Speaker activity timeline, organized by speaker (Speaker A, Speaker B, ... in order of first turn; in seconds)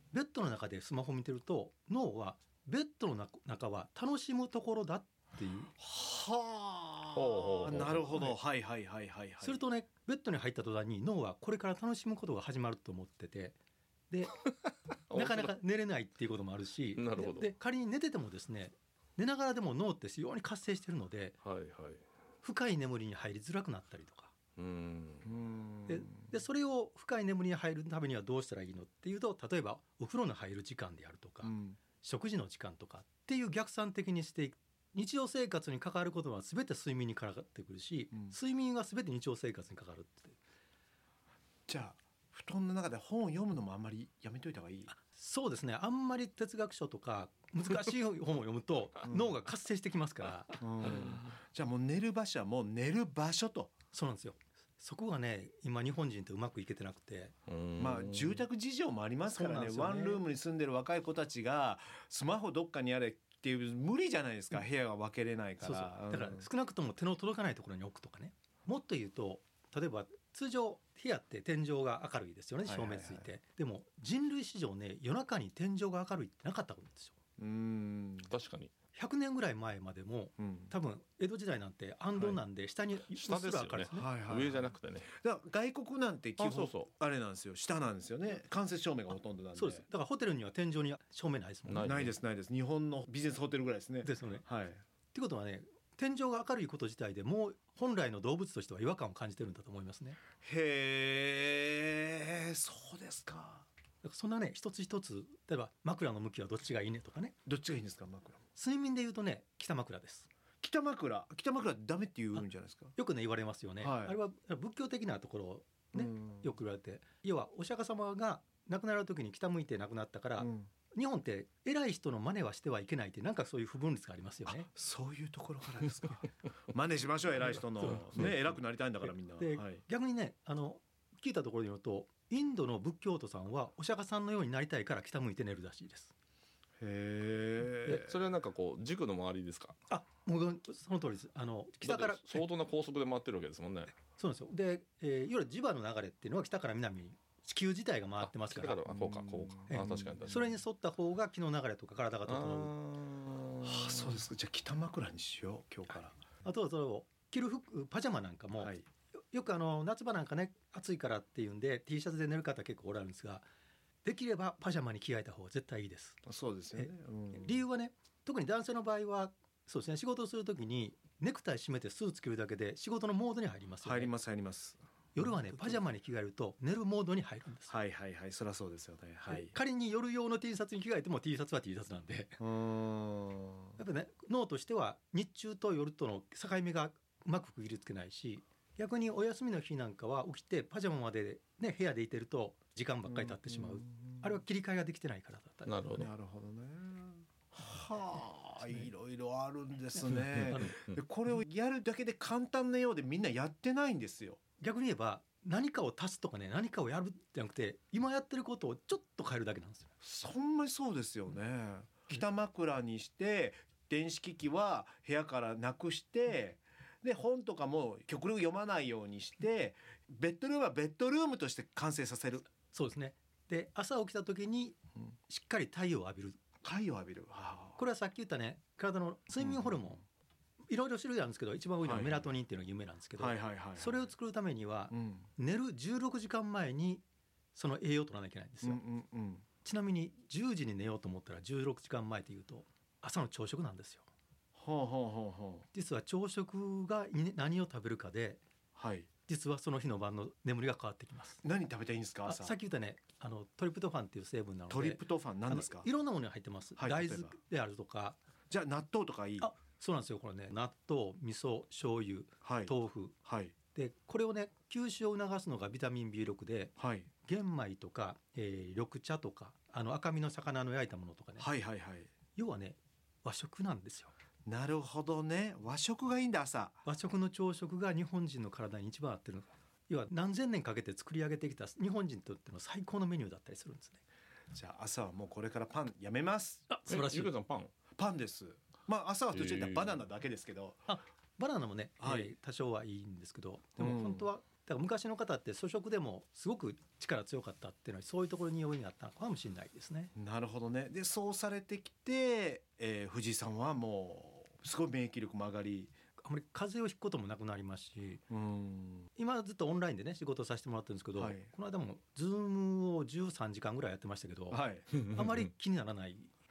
Speaker A: 0.1-5.7, 8.1-8.3, 9.4-13.6, 14.1-14.4, 15.1-21.4, 22.4-24.3, 25.9-40.4, 44.9-50.6, 53.9-57.4, 59.3-60.2, 65.6-77.1, 78.9-84.1, 89.5-92.0, 94.0-94.4, 95.1-100.2, 104.0-107.4, 108.5-110.3, 113.0-124.7, 127.8-128.4, 129.0-136.1, 139.9-142.5, 144.1-148.8, 149.7-152.7, 156.4-163.4, 164.0-166.2, 166.8-174.1, 175.1-177.7, 179.2-182.4, 183.8-195.8, 198.6-198.9, 199.9-200.7, 204.6-209.9, 222.7-224.8, 225.3-226.4, 227.8-230.0, 230.7-237.0, 237.5-238.8, 239.6-244.0, 245.7-248.4, 249.3-251.4, 252.2-258.2, 259.4-263.2, 263.7-271.5, 272.4-274.1, 276.8-284.0, 286.7-287.3, 290.9-300.1, 306.2-308.2, 309.1-316.3
Speaker B: 5.8-9.6, 25.2-26.2, 31.4-31.8, 41.7-44.9, 49.0-49.3, 50.6-53.7, 57.8-66.5, 72.6-73.3, 77.4-78.3, 80.4-80.7, 83.9-89.8, 91.8-94.8, 100.4-103.7, 107.4-108.4, 110.6-113.0, 113.8-114.2, 116.0-116.5, 120.4-120.7, 124.5-129.8, 136.8-138.1, 148.9-150.2, 153.6-156.2, 158.6-158.8, 166.2-167.6, 173.8-175.8, 177.7-179.5, 182.4-183.8, 193.1-194.3, 195.9-204.4, 210.0-222.5, 226.6-227.8, 229.4-230.0, 231.8-232.3, 233.2-234.0, 234.9-235.3, 238.6-239.4, 244.5-245.6, 248.7-249.1, 251.4-252.6, 254.7-255.8, 256.8-257.3, 258.5-259.5, 262.4-262.7, 263.2-263.5, 266.8-267.1, 271.4-272.1, 274.4-276.8, 284.5-286.6, 288.0-290.8, 292.0-292.3, 293.8-294.3, 300.1-305.9, 308.3-309.1, 311.2-311.5, 314.5-314.9
Speaker C: 7.1-8.1, 14.4-15.5, 16.9-17.5, 21.4-22.0, 24.6-25.3, 57.5-58.4, 78.3-78.7, 83.2-85.1, 86.4-86.9, 91.7-92.1, 137.8-139.7, 141.8-143.9, 148.2-150.5, 152.3-154.2, 195.7-196.1, 200.1-201.0, 286.9-287.7, 289.3-290.0